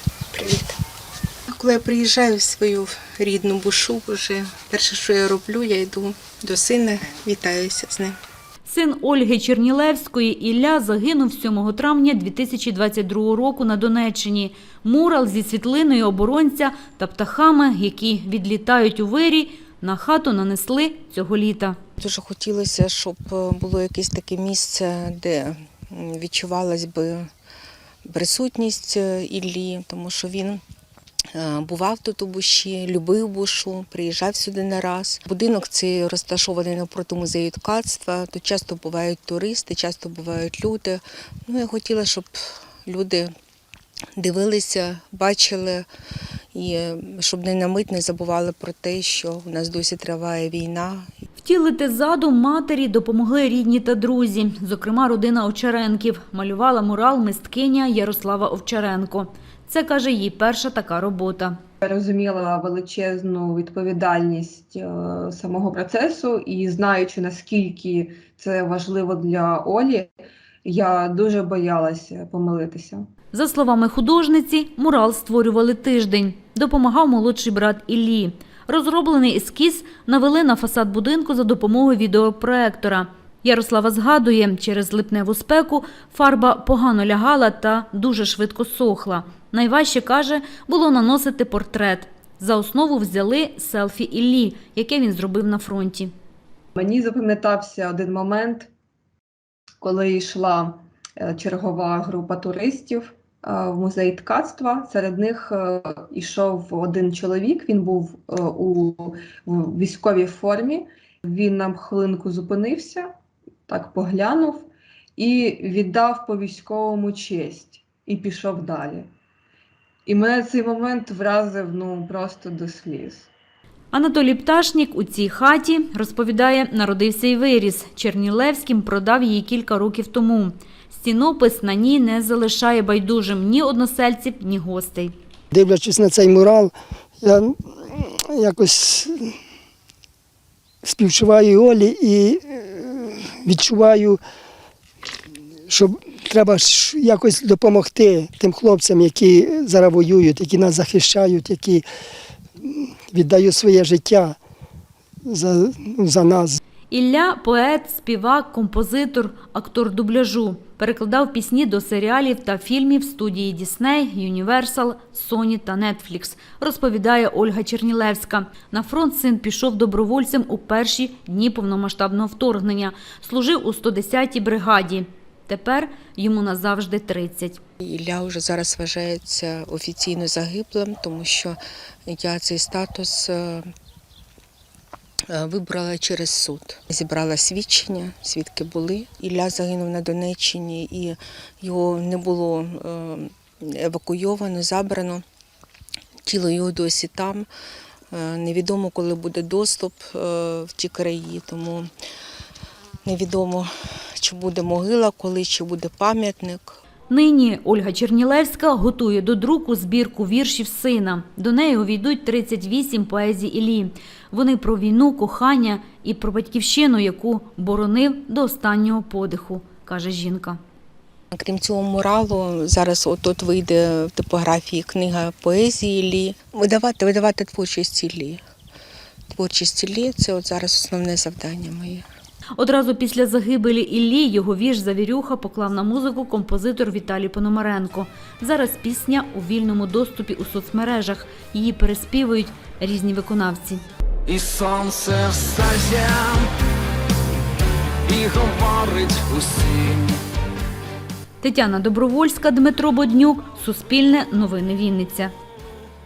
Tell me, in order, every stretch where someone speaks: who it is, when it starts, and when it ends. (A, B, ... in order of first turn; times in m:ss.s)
0:00.3-0:00.8 A
0:01.5-0:08.2 A
0:08.6-0:21.8 B
0:22.0-0:27.3 A
0:28.1-0:30.6 A
0:31.3-0:43.3 A
0:44.2-0:45.9 A
0:46.5-0:51.1 A
0:51.4-1:01.6 B
1:01.8-1:10.1 C
1:10.6-1:13.1 C
1:13.3-1:36.1 B
1:36.8-1:38.7 C
1:39.8-1:53.1 C
1:53.7-1:59.1 C
2:00.1-2:03.3 C
2:03.9-2:15.1 B
2:15.5-2:19.3 D
2:20.8-2:24.2 D
2:25.7-2:31.8 D
2:32.7-2:34.4 D
2:35.3-2:36.6 D
2:36.9-2:57.6 B
2:57.8-3:03.7 A
3:05.3-3:15.2 A
3:16.3-3:17.5 A
3:18.1-3:21.9 A
3:23.0-3:26.8 A
3:27.1-3:40.6 B
3:41.3-3:48.4 A
3:49.3-3:52.0 A
3:52.6-4:03.8 B
4:04.3-4:06.5 E
4:08.1-4:10.2 E
4:11.4-4:15.3 B